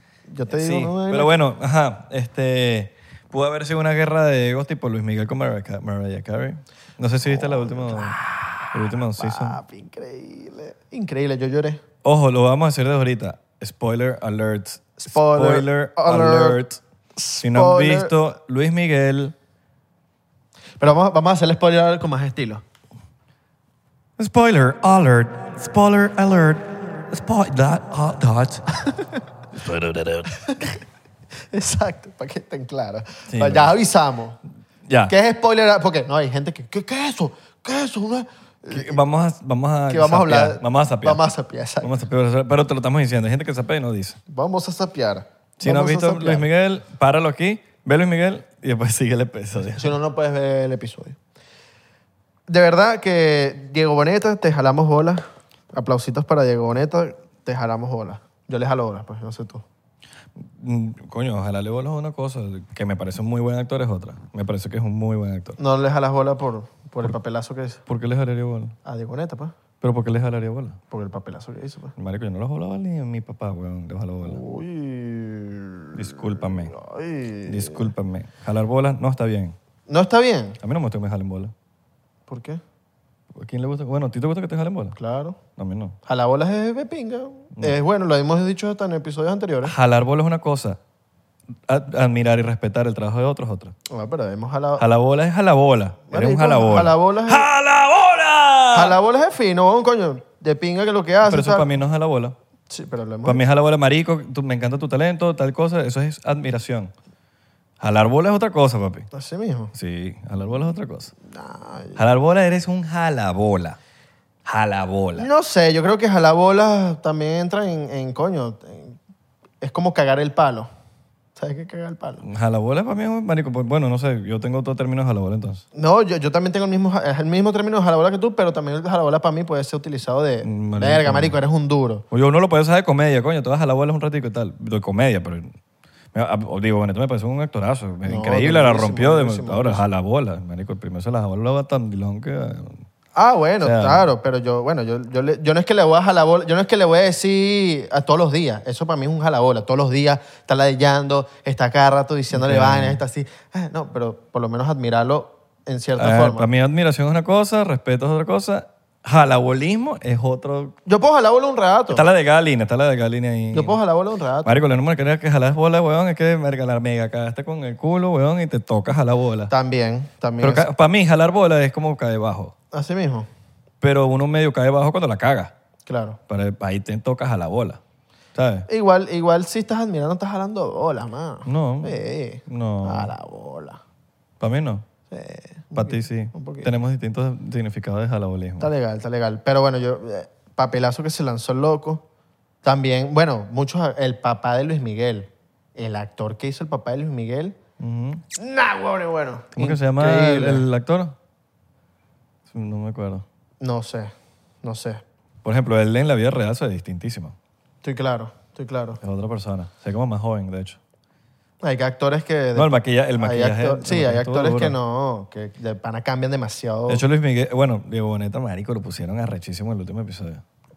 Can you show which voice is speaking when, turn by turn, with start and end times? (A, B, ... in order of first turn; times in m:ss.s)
0:00.3-0:01.4 A
0:00.5-0:08.2 B
0:07.2-0:11.8 A
0:08.7-0:09.6 B
0:12.0-0:16.8 B
0:15.0-0:16.6 A
0:17.2-0:18.1 A
0:17.4-0:19.3 B
0:20.8-0:22.6 A
0:24.2-0:28.8 B
0:29.5-0:30.5 B
0:30.5-0:30.8 A
0:31.5-0:34.4 A
0:33.3-0:33.8 B
0:34.9-0:35.1 B
0:35.1-0:39.0 A
0:38.7-0:41.2 B
0:39.9-0:42.0 A
0:41.8-0:44.2 B
0:44.3-0:46.5 A
0:45.6-0:49.9 B
0:49.8-0:51.2 A
0:52.5-0:59.6 A
1:00.4-1:05.6 B
1:05.6-1:07.8 A
1:07.9-1:08.8 B
1:08.8-1:09.5 A
1:09.8-1:10.8 B
1:10.9-1:11.9 A
1:12.0-1:14.4 B
1:14.2-1:17.9 A
1:16.0-1:16.8 B
1:17.4-1:19.6 B
1:19.9-1:20.6 A
1:20.6-1:21.5 B
1:22.3-1:22.6 A
1:23.3-1:25.0 B
1:25.0-1:25.4 A
1:25.6-1:26.0 B
1:26.0-1:29.8 A
1:29.6-1:30.8 B
1:31.7-1:33.8 B
1:33.9-1:34.8 A
1:34.8-1:39.0 B
1:36.1-1:37.5 A
1:38.7-1:41.7 A
1:41.2-1:42.4 B
1:42.7-1:43.4 A
1:43.2-1:46.9 B
1:47.8-1:49.1 B
1:49.1-1:49.7 A
1:49.7-1:51.1 B
1:51.2-1:52.0 A
1:52.0-1:53.8 B
1:54.5-1:55.3 B
1:55.2-1:59.0 A
1:59.6-2:00.7 A
2:01.4-2:02.2 A
2:02.2-2:05.6 B
2:05.7-2:12.0 A
2:10.4-2:11.4 B
2:12.1-2:15.6 B
2:16.1-2:22.8 B
2:18.0-2:19.8 A
2:23.2-2:36.5 A
2:23.6-2:24.1 B
2:32.3-2:33.0 B
2:36.0-2:40.8 B
2:40.9-2:42.1 A
2:41.9-2:43.8 B
2:43.5-2:44.6 A
2:44.4-2:49.5 B
2:49.5-2:50.7 A
2:50.4-2:52.5 B
2:52.7-2:53.3 A
2:53.8-2:55.5 B
2:55.9-2:56.2 A
2:56.3-2:57.8 B
2:58.4-2:58.7 B
2:58.7-3:03.8 A
3:01.4-3:03.1 B
3:04.4-3:04.8 B
3:05.1-3:06.7 A
3:05.8-3:08.7 B
3:08.6-3:12.0 A
3:12.6-3:17.6 A
3:17.8-3:18.2 B
3:18.4-3:20.7 A
3:19.6-3:21.2 B
3:22.5-3:23.2 B
3:23.6-3:25.0 A
3:25.4-3:27.4 B
3:27.8-3:29.0 A
3:29.0-3:30.8 B
3:31.6-3:37.0 A
3:32.6-3:34.8 B
3:36.9-3:40.4 B